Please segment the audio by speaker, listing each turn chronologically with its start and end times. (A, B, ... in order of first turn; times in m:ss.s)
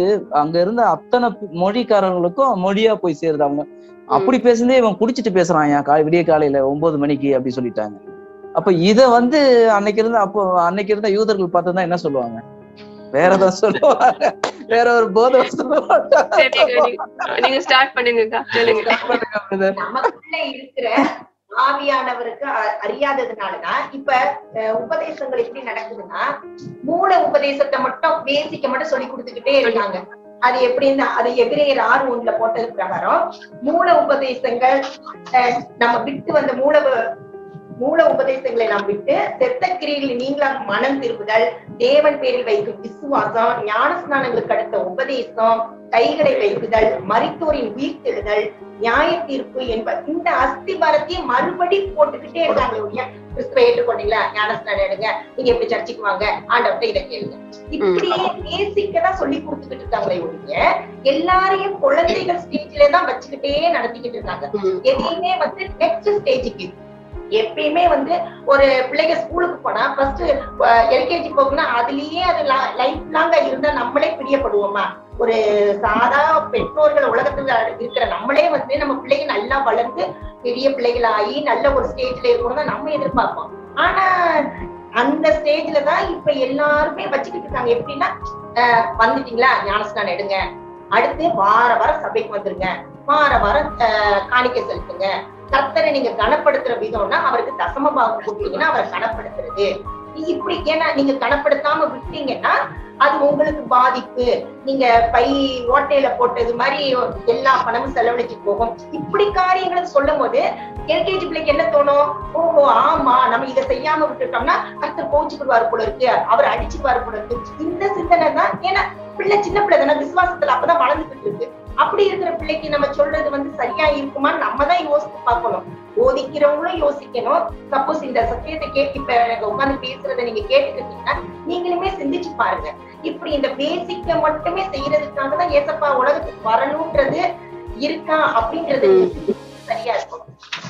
0:00.4-0:12.4 A
0:04.1-0:04.4 B
0:13.1-0:17.3 A
0:16.3-0:19.0 B
0:18.6-0:19.8 A
0:19.7-0:24.2 C
0:24.7-0:26.2 C
0:26.8-0:34.7 C
0:35.3-0:37.1 C
0:37.8-1:06.8 C
0:57.8-0:58.3 B
1:04.5-1:05.1 B
1:07.4-1:24.4 C
1:25.0-1:30.4 C
1:30.9-2:17.2 C
2:17.8-2:20.2 C
2:18.8-2:19.3 B